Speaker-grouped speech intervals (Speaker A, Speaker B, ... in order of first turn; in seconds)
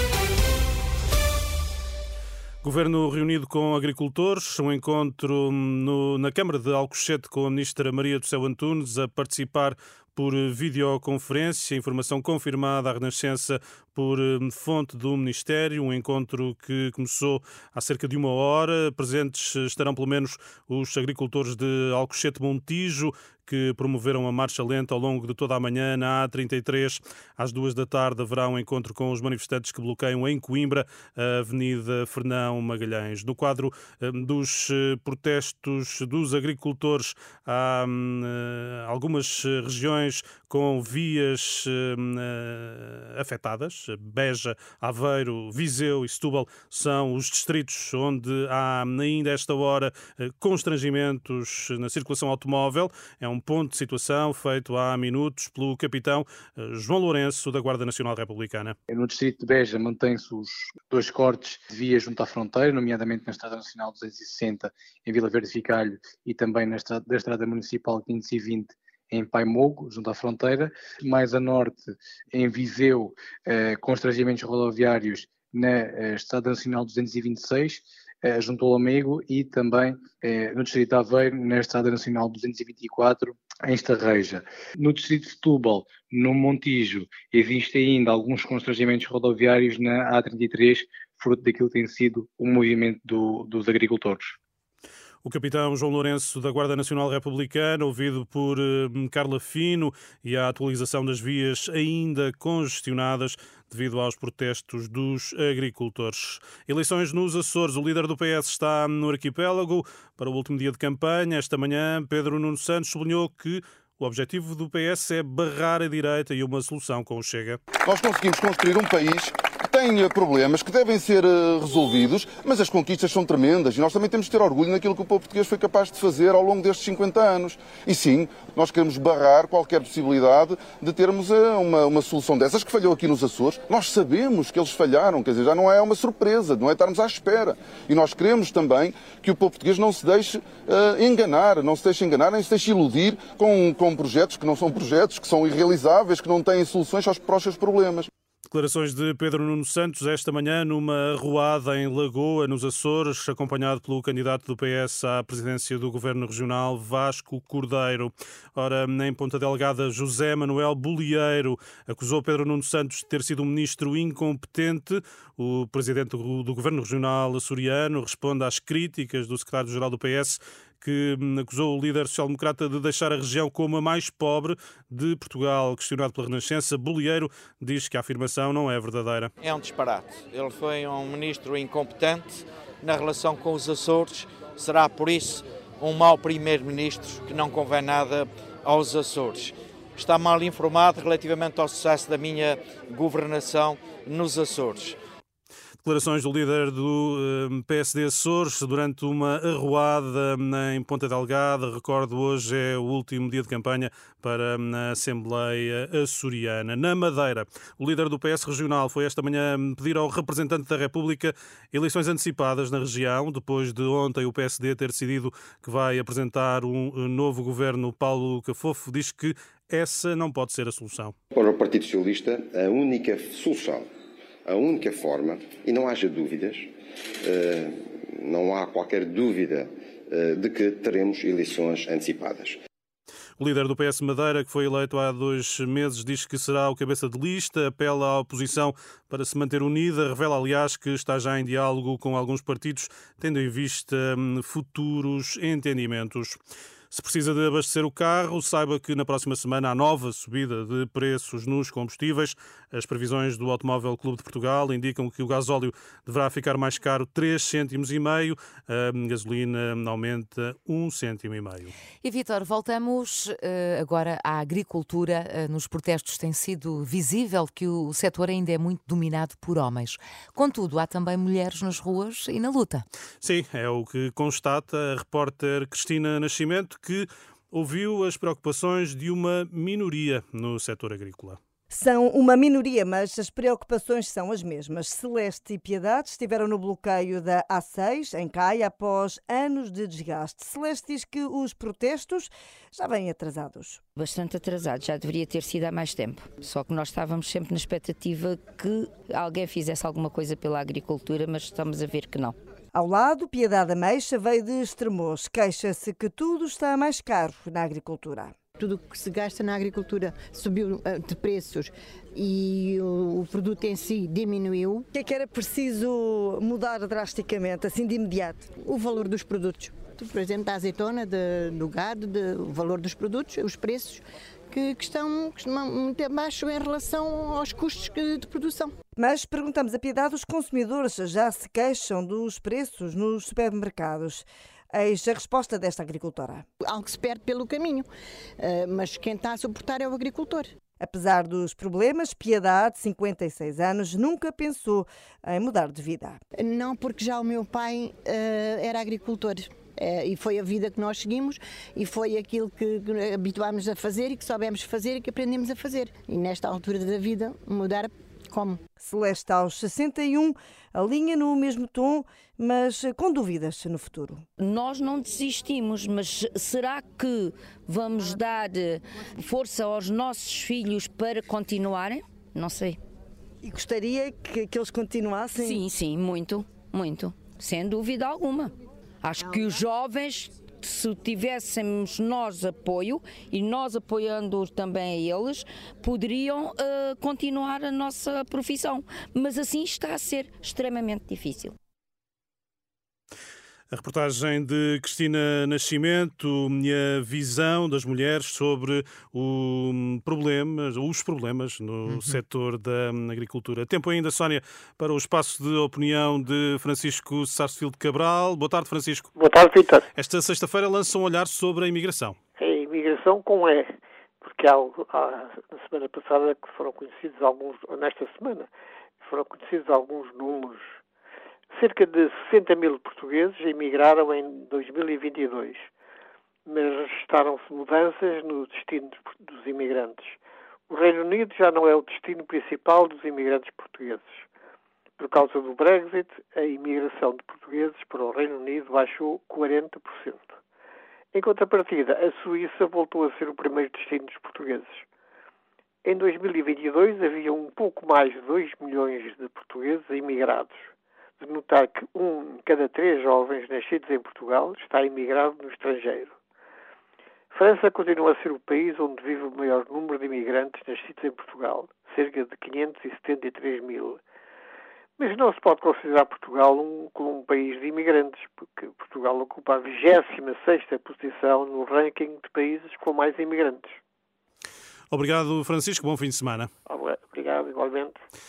Speaker A: 2.6-58.8, 95.2-117.6, 148.5-179.3, 195.8-221.1, 233.4-246.4, 246.9-261.7, 273.2-281.4, 393.7-409.1, 409.9-412.2, 474.9-476.5
Speaker B: 58.9-94.3
Speaker C: 117.8-148.1
Speaker D: 179.4-195.0
Speaker E: 221.3-223.8, 224.4-226.7, 227.2-232.6
Speaker F: 262.0-272.8
Speaker G: 281.7-293.8, 302.7-308.3, 314.9-318.5, 328.9-336.4, 340.8-346.2, 358.8-364.2, 373.4-375.6
Speaker H: 293.9-302.4, 364.4-372.8, 375.4-391.6
Speaker I: 308.6-314.8, 318.6-328.7, 336.6-337.9, 338.4-340.5, 346.4-358.6
Speaker J: 409.1-409.9, 412.4-418.5, 419.0-420.8, 421.5-425.7, 426.5-430.2, 430.7-434.2, 435.0-440.3, 441.1-444.8, 445.8-450.6, 451.2-456.1, 457.3-464.0, 465.0-473.8, 476.6-478.0